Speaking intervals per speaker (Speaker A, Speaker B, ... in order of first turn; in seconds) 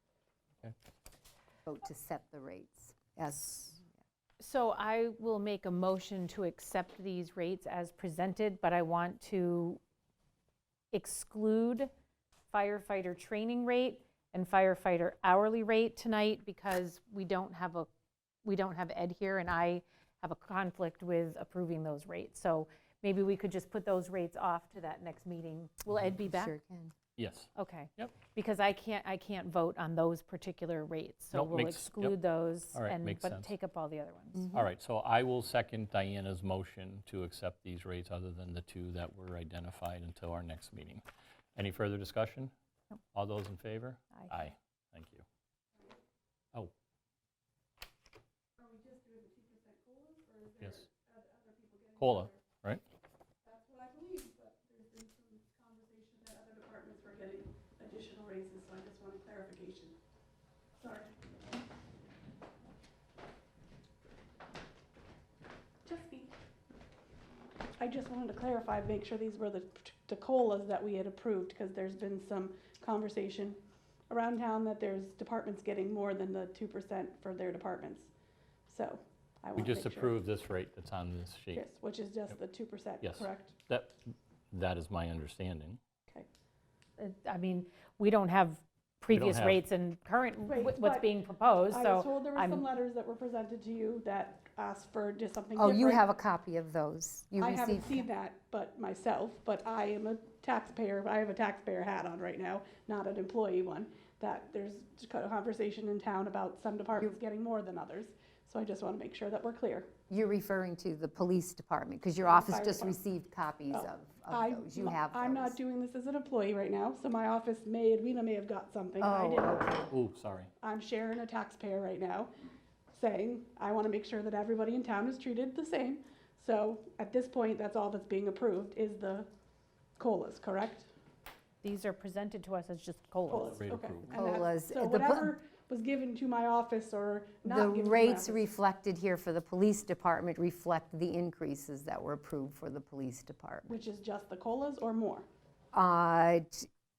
Speaker A: 1.7-3.9, 26.3-26.9, 34.4-34.6, 95.6-98.1, 110.1-115.6, 119.0-119.9, 134.1-135.4, 137.4-143.8, 145.7-146.7
Speaker B: 4.4-9.8, 10.9-11.9, 12.5-17.9, 18.4-26.5, 27.6-34.5, 87.0-92.7, 131.6-133.6
Speaker C: 27.2-28.2, 31.3-32.2, 32.7-33.5, 34.5-41.0, 41.6-42.5, 43.1-45.2, 52.0-52.8, 79.6-81.6, 83.0-85.8, 89.1-89.6, 119.9-120.5, 133.6-134.2
Speaker D: 48.6-52.4, 53.5-60.0, 60.8-61.1, 65.9-66.3, 67.8-73.6, 74.1-78.1, 78.7-80.2, 81.5-83.6, 90.5-91.1, 91.7-96.0, 97.4-109.9, 112.2-113.0, 113.7-119.9, 120.6-122.3, 122.9-129.3, 130.0-130.9, 133.3-138.5, 143.7-145.3